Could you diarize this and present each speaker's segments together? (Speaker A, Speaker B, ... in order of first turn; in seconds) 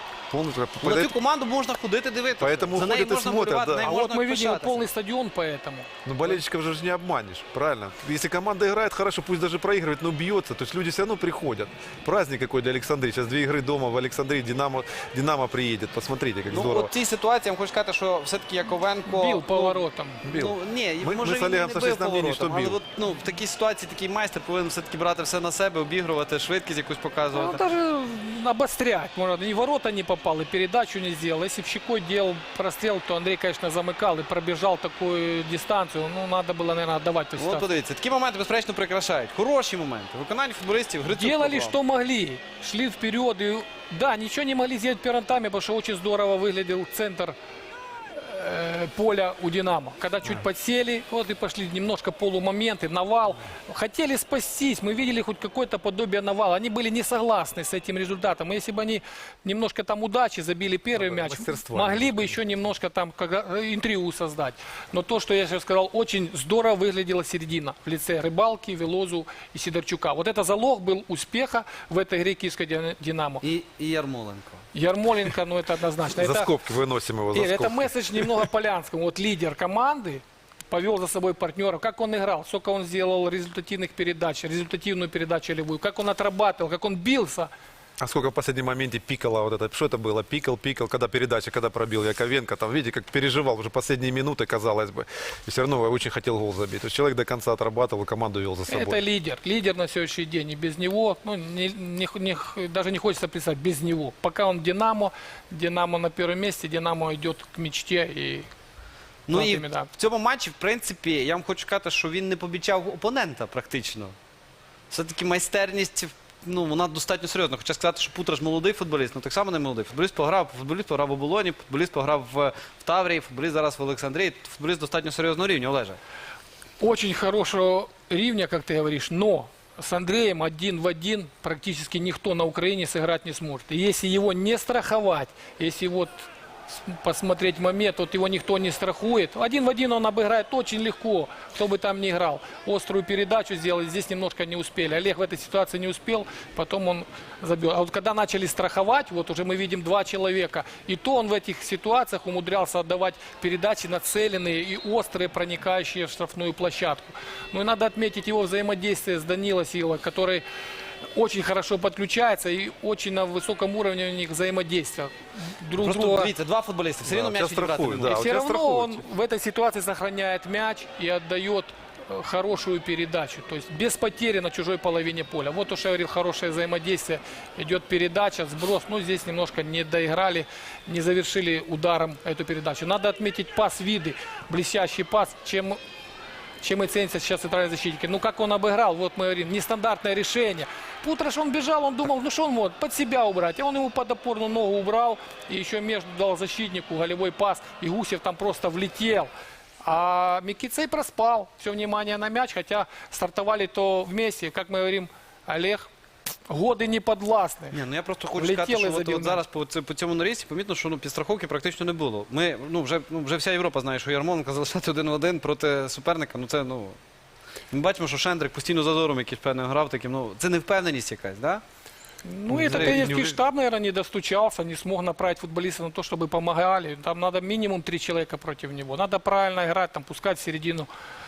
Speaker A: 0.3-1.1, 2.4-3.9, 6.0-16.9, 20.2-22.8, 60.9-62.4, 76.2-78.4, 88.0-99.0, 167.1-169.0, 222.5-223.4
Speaker B: 0.8-4.9, 16.4-27.6, 37.3-41.8, 73.4-74.6, 109.3-114.2, 114.9-126.0, 165.8-168.3, 207.7-217.0, 217.7-221.6, 222.7-223.1
Speaker C: 3.8-6.4, 19.1-20.2, 27.3-37.7, 41.1-47.4, 48.2-73.4, 74.7-76.5, 77.3-87.5, 98.7-108.5, 109.3-109.9, 126.8-160.4, 161.2-166.3, 168.1-185.8, 186.6-199.3, 199.8-205.9, 206.5-207.8, 208.3-209.4, 222.2-230.9